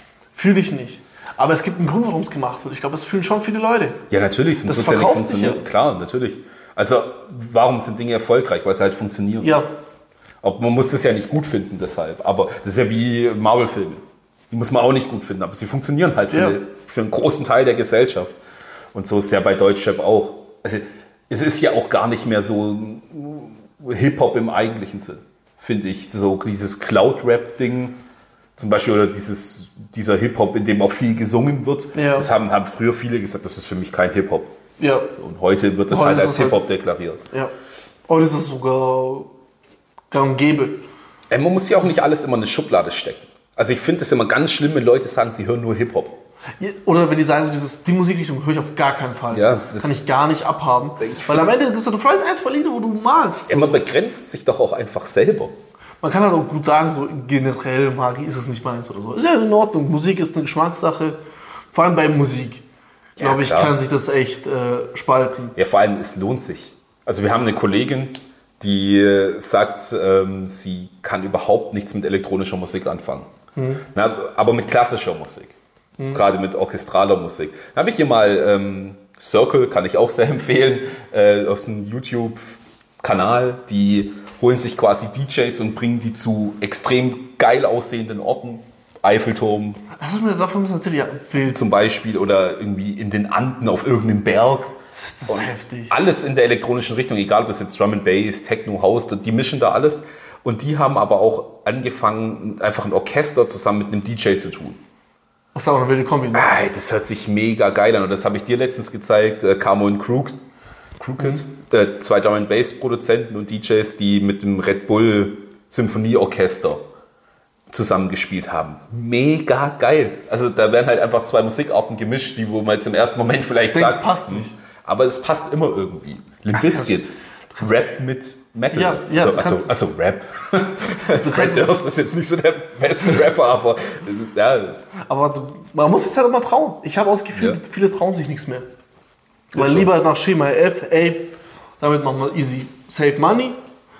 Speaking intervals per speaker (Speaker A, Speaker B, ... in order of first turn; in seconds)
Speaker A: 0.3-4.0, 4.7-5.7, 9.4-9.7, 16.3-16.6, 31.9-32.3, 34.8-35.1, 35.9-36.6, 38.1-39.3, 40.1-40.8, 46.6-53.8, 56.0-61.2, 61.7-62.6, 63.2-65.5, 73.6-73.8, 76.0-76.2, 90.0-91.6, 94.9-96.0, 105.5-106.5, 123.7-124.6, 126.5-127.0, 128.7-129.7, 131.1-131.8, 135.1-138.7, 139.5-143.6
Speaker B: 4.1-9.6, 10.4-18.4, 18.9-28.0, 28.6-34.5, 35.2-37.2, 41.3-46.1, 49.3-50.0, 51.0-51.5, 53.5-55.5, 63.2-63.8, 65.6-73.3, 73.9-75.5, 76.1-82.4, 83.0-89.8, 91.5-94.7, 95.3-104.8, 106.3-110.4, 111.0-116.8, 117.7-134.8, 139.6-139.9